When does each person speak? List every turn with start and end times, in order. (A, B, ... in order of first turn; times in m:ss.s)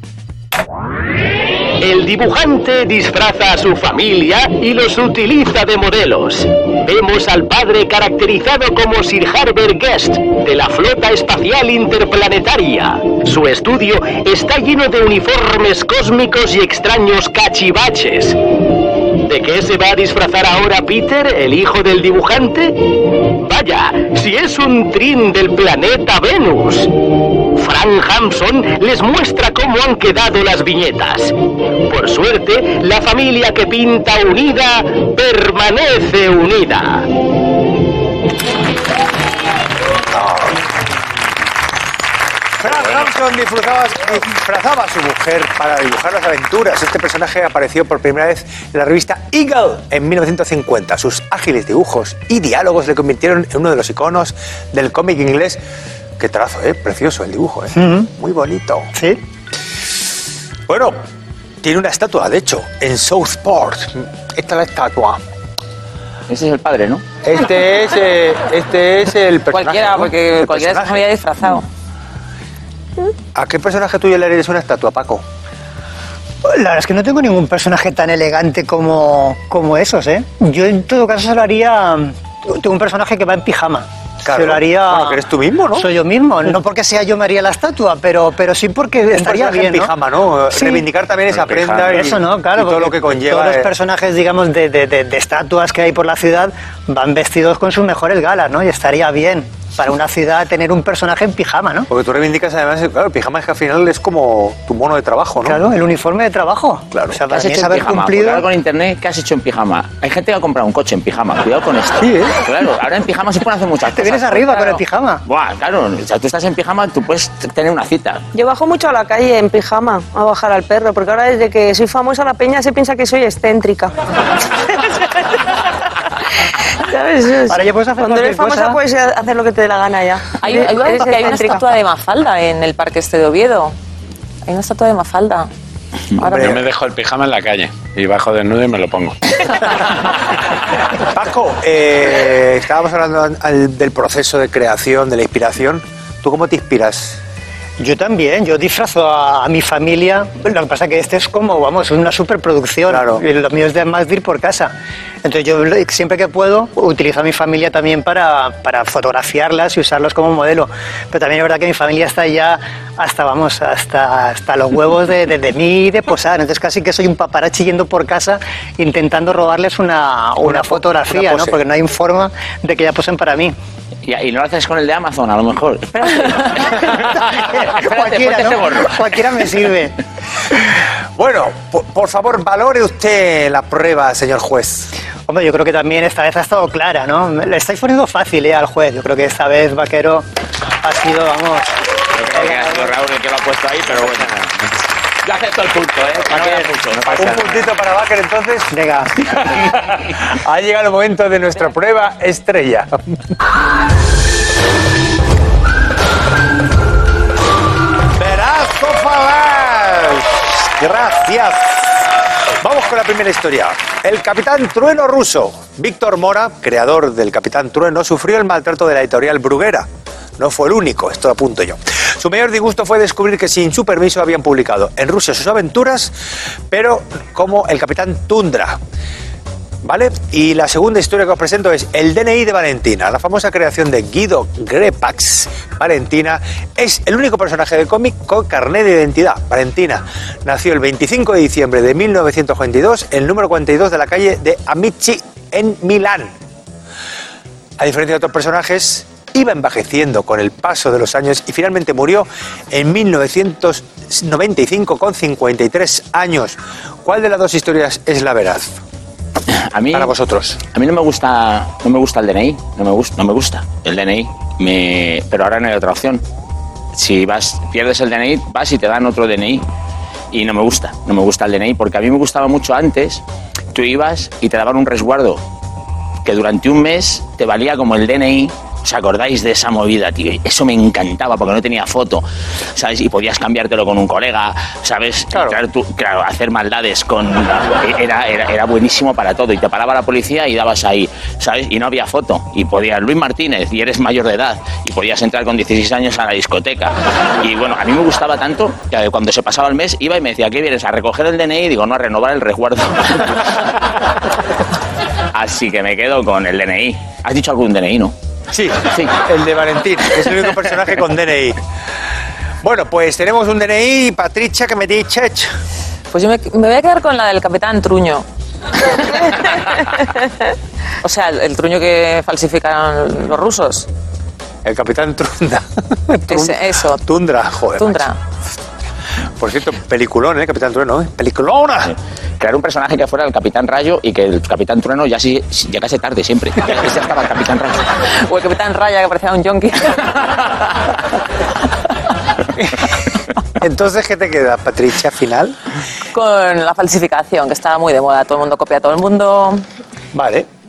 0:01.8-0:18.4 A
0:19.2-0:26.9 A
0:27.5-0:37.1 A
0:40.1-0:40.6 B
0:42.6-0:55.6 B
0:56.2-0:58.9 B
0:57.7-0:58.1 C
0:58.9-0:59.2 C
1:00.7-1:01.0 B
1:01.6-1:05.2 B
1:06.3-1:07.0 D
1:07.2-1:11.0 B
1:09.5-1:11.7 E
1:13.3-1:15.2 B
1:16.4-1:25.2 C
1:24.2-1:25.9 B
1:25.7-1:29.9 C
1:29.1-1:33.7 B
1:30.5-1:30.8 C
1:31.3-1:32.1 F
1:31.8-1:41.9 C
1:41.9-1:45.6 B
1:45.4-1:48.5 C
1:46.9-1:47.2 B
1:47.3-1:58.2 D
1:52.0-1:52.4 B
1:53.8-1:55.2 C
1:58.3-2:03.9 G
2:04.5-2:05.6 G
2:06.4-2:11.6 G
2:07.5-2:08.8 C
2:10.4-2:13.7 E
2:14.4-2:15.5 E
2:16.2-2:16.6 E
2:16.2-2:16.7 B
2:16.3-2:19.2 F
2:20.9-2:27.2 B
2:27.8-2:34.7 C
2:32.9-2:33.2 B
2:35.2-2:53.5 C
2:50.4-2:51.6 B
2:54.0-2:59.1 D
2:56.3-3:00.0 C
3:01.2-3:04.9 B
3:05.3-3:10.2 C
3:10.8-3:11.8 C
3:12.1-3:14.3 D
3:14.0-3:14.7 F
3:15.2-3:17.3 D
3:16.3-3:17.7 F
3:17.1-3:18.7 B
3:18.7-3:19.1 C
3:19.4-3:23.2 B
3:28.1-3:32.1 B
3:32.6-3:39.9 B
3:40.4-3:46.1 B
3:46.7-3:48.8 B
3:49.8-4:06.3 B
4:07.8-4:18.8 B
4:19.5-4:20.1 D
4:19.9-4:20.6 B
4:20.7-4:26.2 D
4:26.9-4:29.6 D
4:30.3-4:35.4 D
4:36.2-5:03.6 D
5:05.3-5:08.1 D
5:08.5-5:11.6 B
5:12.6-5:15.5 B
5:16.1-5:18.2 E
5:21.0-5:23.9 E
5:24.6-5:28.1 B
5:26.3-5:27.0 E
5:27.8-5:28.2 E
5:29.4-5:31.9 B
5:31.9-5:37.9 D
5:38.2-5:40.4 E
5:42.6-5:42.8 B
5:43.6-5:45.6 B
5:46.1-5:49.6 E
5:50.1-5:50.5 B